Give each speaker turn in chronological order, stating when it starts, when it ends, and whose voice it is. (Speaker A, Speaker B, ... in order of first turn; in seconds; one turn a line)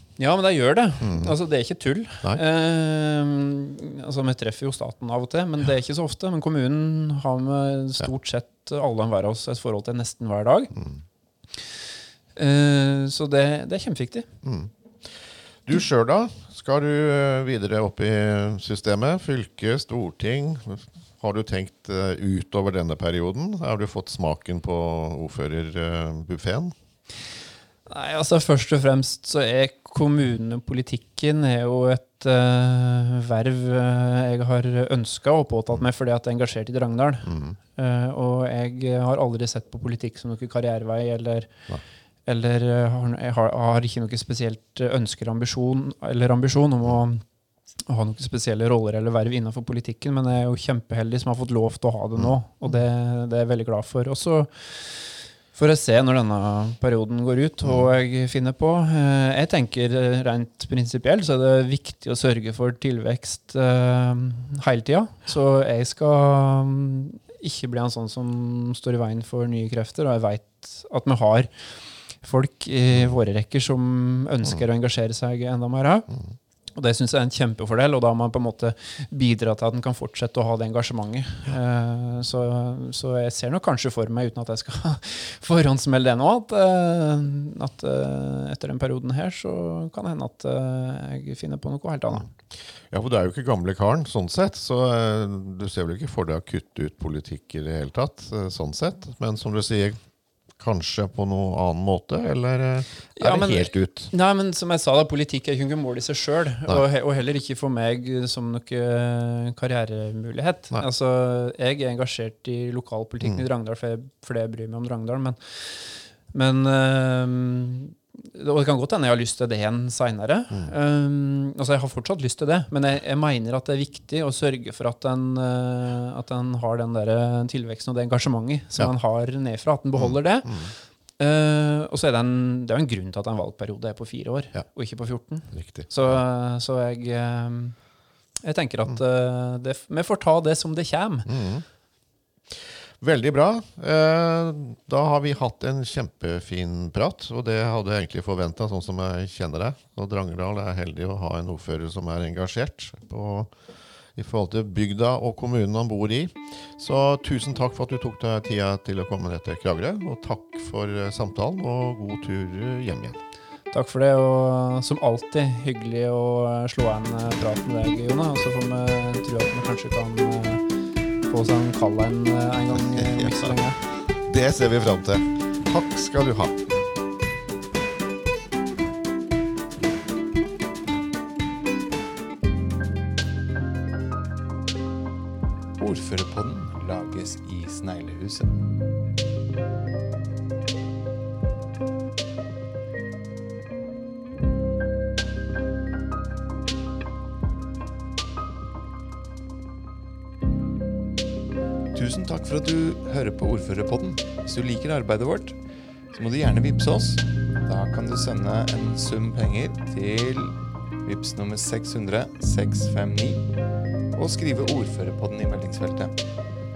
Speaker A: 0.2-10.7
Speaker B: 1.0-1.3
Speaker A: 12.4-14.3
Speaker B: 14.4-26.7
Speaker A: 27.9-41.5
Speaker B: 37.3-37.6
Speaker A: 42.3-47.2
Speaker A: 47.9-71.7
Speaker B: 57.6-57.9
Speaker A: 72.2-76.1
Speaker A: 76.8-92.3
Speaker B: 92.8-100.0
Speaker B: 100.6-104.1
Speaker A: 103.2-137.7
Speaker B: 129.9-130.7
Speaker B: 135.5-136.2
Speaker A: 138.4-141.3
Speaker B: 141.3-141.6
Speaker B: 142.5-153.5
Speaker B: 154.2-163.2
Speaker A: 163.7-170.6
Speaker A: 171.3-173.8
Speaker B: 172.8-173.6
Speaker B: 174.2-176.6
Speaker C: 185.8-188.6
Speaker C: 201.9-205.6
Speaker C: 206.1-213.5
Speaker C: 214.1-216.2